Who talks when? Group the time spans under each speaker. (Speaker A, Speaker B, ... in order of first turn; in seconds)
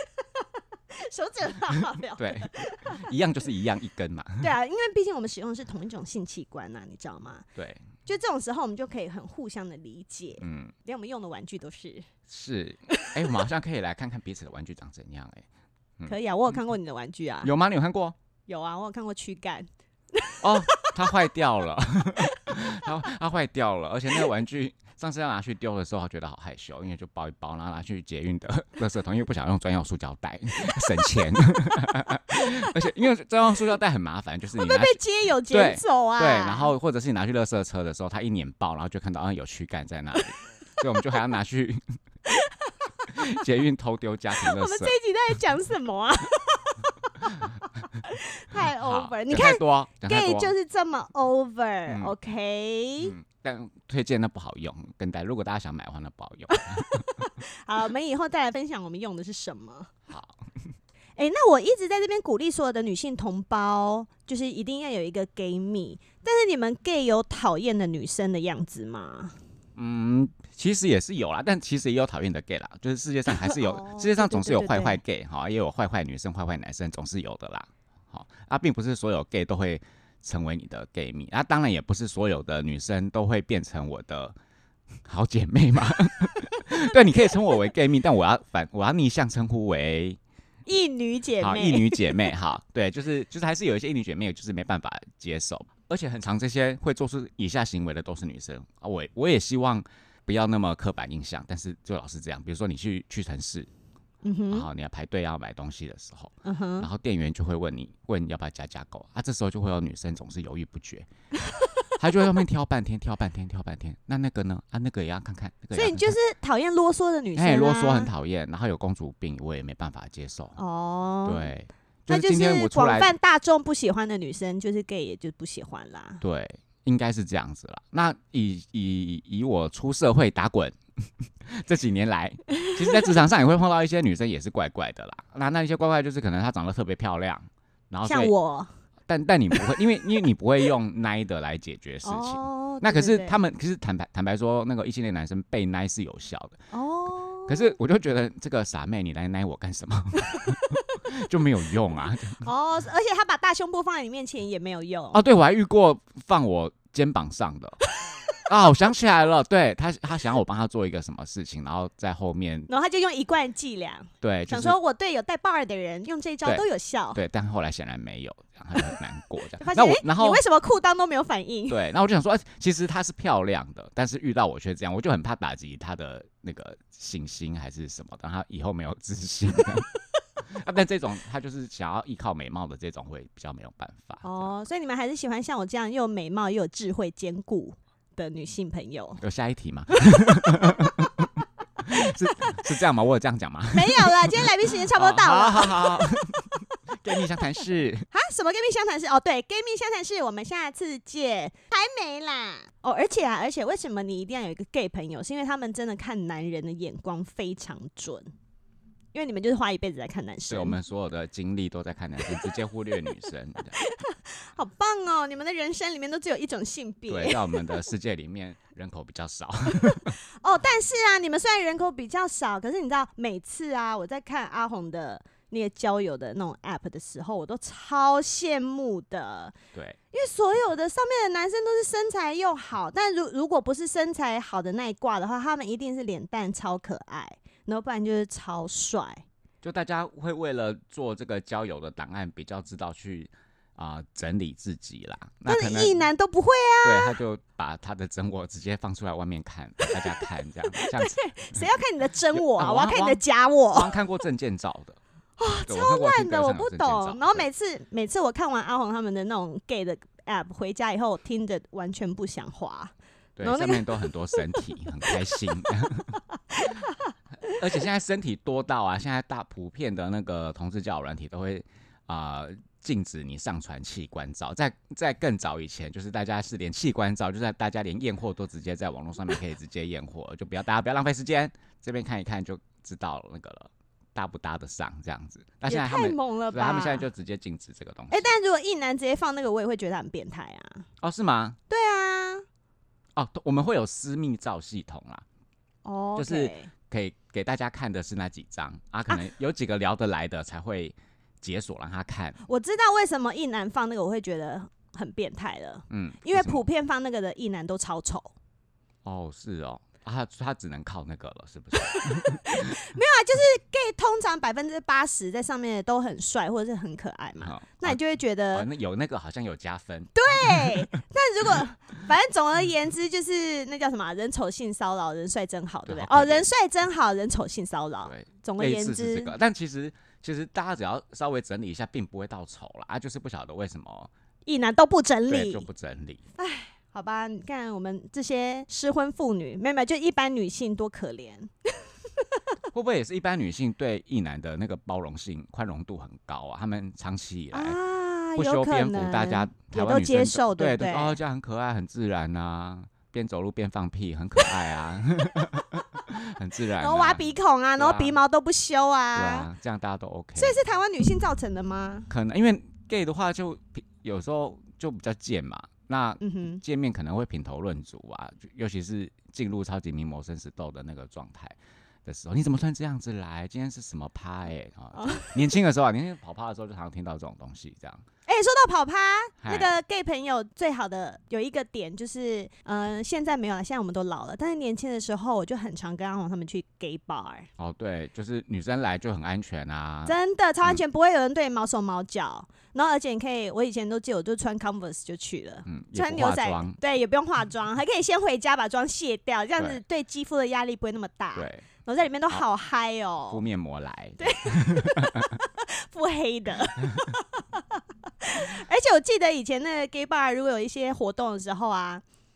Speaker A: 0.2-3.1, 4.4-7.5, 8.1-12.1, 16.1-17.5, 18.5-21.1, 34.5-36.7, 42.3-43.1, 44.4-53.2, 56.5-59.9, 61.2-69.4, 73.3-75.0, 90.7-92.3, 104.2-104.7, 106.5-106.9, 115.7-118.1, 120.6-121.5, 122.1-126.2, 132.6-133.0, 138.1-138.7, 142.0-143.4, 146.7-147.8, 152.4-155.2, 162.7-167.2, 169.6-171.8, 184.2-189.2, 190.0-191.1, 192.0-192.6, 193.7-196.6, 198.1-208.3, 209.1-210.8, 213.8-217.8, 219.8-229.5, 230.1-239.2, 245.5-247.2, 249.8-254.0, 255.4-264.6, 266.5-266.9, 285.7-287.1, 288.1-290.9, 291.7-292.4, 295.9-296.7, 302.4-308.3, 311.8-318.7, 320.1-329.3, 334.5-335.7, 336.4-342.4, 347.5-351.2, 356.8-359.5, 360.4-362.1, 366.2-366.6, 375.0-375.4, 378.3-387.5, 390.1-403.4, 404.2-412.0
Speaker B: 2.2-4.5, 7.6-7.9, 10.4-10.7, 12.3-15.5, 16.0-16.6, 17.4-18.2, 20.4-35.0, 35.5-41.8, 43.1-44.9, 48.6-50.5, 51.9-52.1, 53.0-57.1, 60.1-60.4, 69.8-84.3, 85.0-90.2, 91.4-103.7, 104.5-111.1, 112.0-116.2, 117.3-120.6, 121.2-123.1, 126.2-130.8, 131.4-138.3, 139.1-146.6, 147.5-152.4, 155.1-157.8, 158.4-162.7, 164.2-164.8, 166.4-170.4, 171.7-179.9, 180.4-184.5, 189.2-191.3, 191.8-198.1, 210.5-213.8, 217.1-220.2, 239.6-246.0, 246.8-251.7, 252.3-253.2, 253.7-255.0, 255.6-257.5, 263.4-266.2, 267.4-288.3, 291.0-291.6, 293.1-295.2, 296.2-302.4, 305.9-306.6, 309.1-312.8, 317.4-318.0, 318.5-320.9, 325.9-326.5, 328.1-334.1, 335.3-336.2, 342.7-347.8, 348.4-358.2, 359.1-360.6, 362.1-378.0, 379.4-379.7, 387.6-390.8, 395.7-396.8, 401.4-401.7, 403.3-405.4